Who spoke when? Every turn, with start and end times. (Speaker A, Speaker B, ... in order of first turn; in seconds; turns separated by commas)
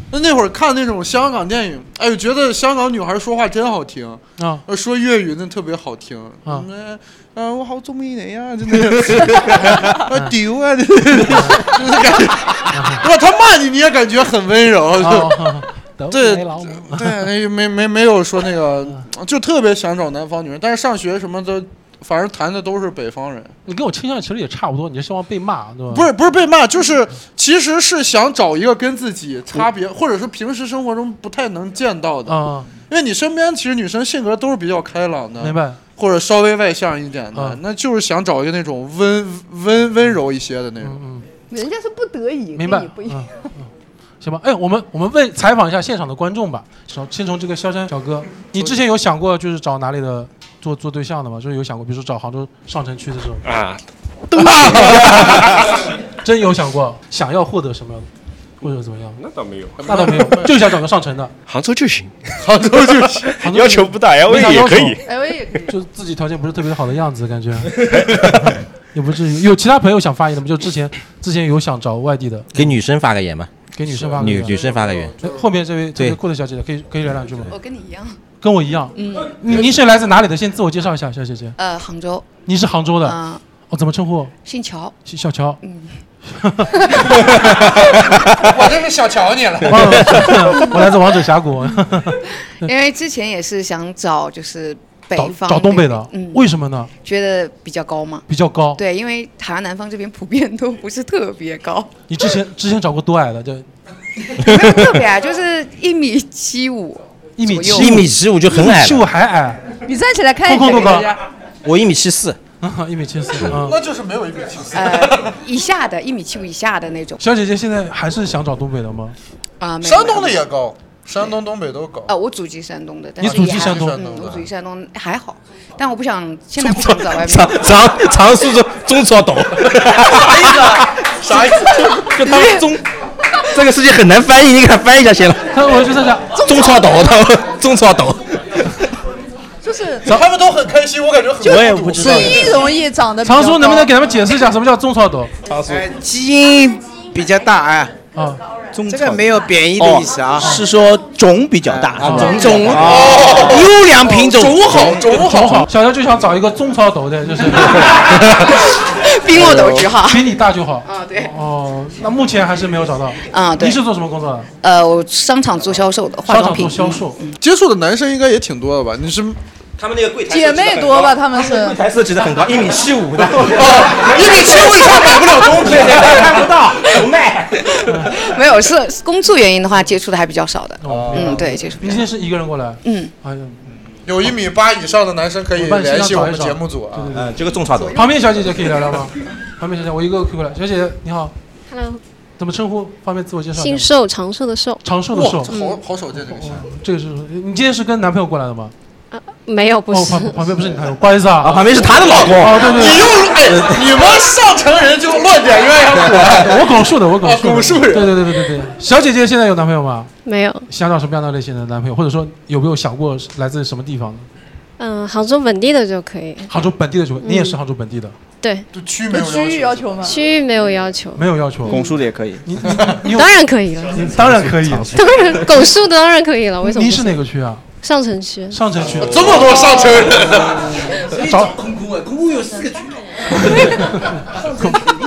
Speaker A: 0.1-15.6, Speaker B: 4.4-4.6, Speaker B: 12.7-13.0, Speaker B: 15.0-17.1, Speaker A: 16.1-23.5, Speaker B: 23.7-26.1, Speaker A: 25.9-41.0, Speaker B: 32.2-32.7, Speaker B: 35.4-35.8, Speaker B: 37.3-37.6, Speaker B: 40.8-41.2, Speaker C: 41.5-43.3, Speaker B: 42.5-43.7, Speaker B: 44.2-53.4, Speaker D: 53.4-53.8, Speaker D: 54.3-55.6, Speaker B: 54.5-55.4, Speaker B: 56.2-58.1, Speaker B: 58.6-59.2, Speaker D: 59.2-59.7, Speaker A: 59.8-60.5, Speaker B: 59.8-61.3, Speaker D: 61.5-62.4, Speaker A: 62.4-63.3, Speaker B: 63.4-65.0, Speaker D: 63.5-65.0, Speaker C: 65.0-65.7, Speaker B: 65.7-72.5, Speaker E: 67.9-68.5, Speaker E: 72.5-75.1, Speaker B: 73.7-74.6, Speaker A: 74.2-75.4, Speaker B: 75.2-77.5, Speaker F: 77.5-78.2, Speaker B: 78.4-81.5, Speaker F: 78.9-79.4, Speaker F: 81.6-82.3, Speaker B: 82.5-83.2, Speaker F: 83.0-83.4, Speaker B: 83.7-84.3, Speaker F: 84.4-84.9, Speaker B: 85.0-85.6, Speaker F: 85.6-86.0, Speaker B: 86.3-86.8, Speaker A: 88.4-90.6, Speaker B: 89.6-92.7, Speaker F: 92.6-96.5, Speaker B: 95.2-96.9, Speaker F: 97.0-101.9, Speaker B: 98.3-98.8, Speaker B: 102.1-103.7, Speaker F: 104.3-108.0, Speaker B: 107.4-109.7, Speaker E: 107.7-109.0, Speaker C: 109.9-111.2, Speaker B: 110.4-111.1, Speaker E: 111.6-112.4, Speaker B: 112.6-113.8, Speaker A: 113.5-115.3, Speaker F: 114.7-117.2, Speaker B: 117.2-119.2, Speaker F: 119.6-120.4, Speaker A: 119.8-122.1, Speaker F: 122.1-127.7, Speaker B: 123.2-124.0, Speaker A: 123.2-124.5, Speaker E: 126.6-130.9, Speaker A: 130.2-132.1, Speaker E: 131.9-132.8, Speaker C: 132.3-132.6, Speaker E: 133.5-135.7, Speaker B: 135.5-136.4, Speaker C: 136.3-136.9, Speaker E: 136.4-138.7, Speaker C: 139.6-140.2, Speaker A: 140.1-142.7, Speaker G: 141.4-142.6, Speaker C: 141.4-144.0, Speaker B: 143.2-145.3, Speaker E: 145.5-145.8, Speaker H: 145.7-148.0, Speaker B: 148.1-148.4, Speaker G: 148.7-153.6, Speaker H: 148.8-150.6, Speaker H: 151.6-154.8, Speaker B: 152.0-152.6, Speaker A: 152.7-155.7, Speaker G: 154.6-155.2, Speaker B: 155.2-158.0, Speaker F: 158.4-161.3, Speaker B: 160.0-164.5, Speaker F: 163.3-163.8, Speaker F: 164.6-167.1, Speaker B: 166.3-167.2, Speaker A: 167.4-169.4, Speaker E: 169.8-177.7, Speaker C: 170.3-171.8, Speaker A: 173.4-176.5, Speaker F: 177.7-182.1, Speaker B: 177.9-178.1, Speaker B: 180.8-183.6, Speaker A: 180.9-181.3, Speaker F: 182.8-183.1, Speaker A: 184.0-187.1, Speaker B: 185.6-187.3, Speaker E: 187.1-188.1, Speaker B: 187.9-191.3, Speaker I: 191.7-192.0, Speaker B: 192.4-193.9, Speaker I: 193.6-194.8, Speaker B: 194.8-195.5, Speaker A: 195.1-196.7, Speaker I: 195.5-195.8, Speaker B: 196.3-198.7, Speaker I: 199.1-200.4, Speaker B: 199.9-203.0, Speaker E: 201.4-202.8, Speaker A: 201.8-208.5, Speaker E: 203.5-203.8, Speaker B: 206.2-210.1, Speaker I: 210.2-210.7, Speaker B: 210.7-214.3, Speaker I: 214.8-216.5, Speaker B: 216.5-218.1, Speaker I: 217.2-217.6, Speaker I: 218.4-218.7, Speaker A: 218.7-220.2, Speaker C: 219.1-220.2, Speaker I: 220.0-221.9, Speaker B: 221.2-221.8, Speaker G: 221.7-222.4, Speaker B: 222.4-223.3, Speaker I: 223.1-224.1, Speaker B: 223.9-225.0, Speaker E: 224.3-225.2, Speaker I: 224.9-227.2, Speaker B: 226.6-227.7, Speaker I: 227.8-228.7, Speaker B: 228.5-229.4, Speaker A: 228.9-231.0, Speaker B: 231.1-231.6, Speaker B: 233.7-234.9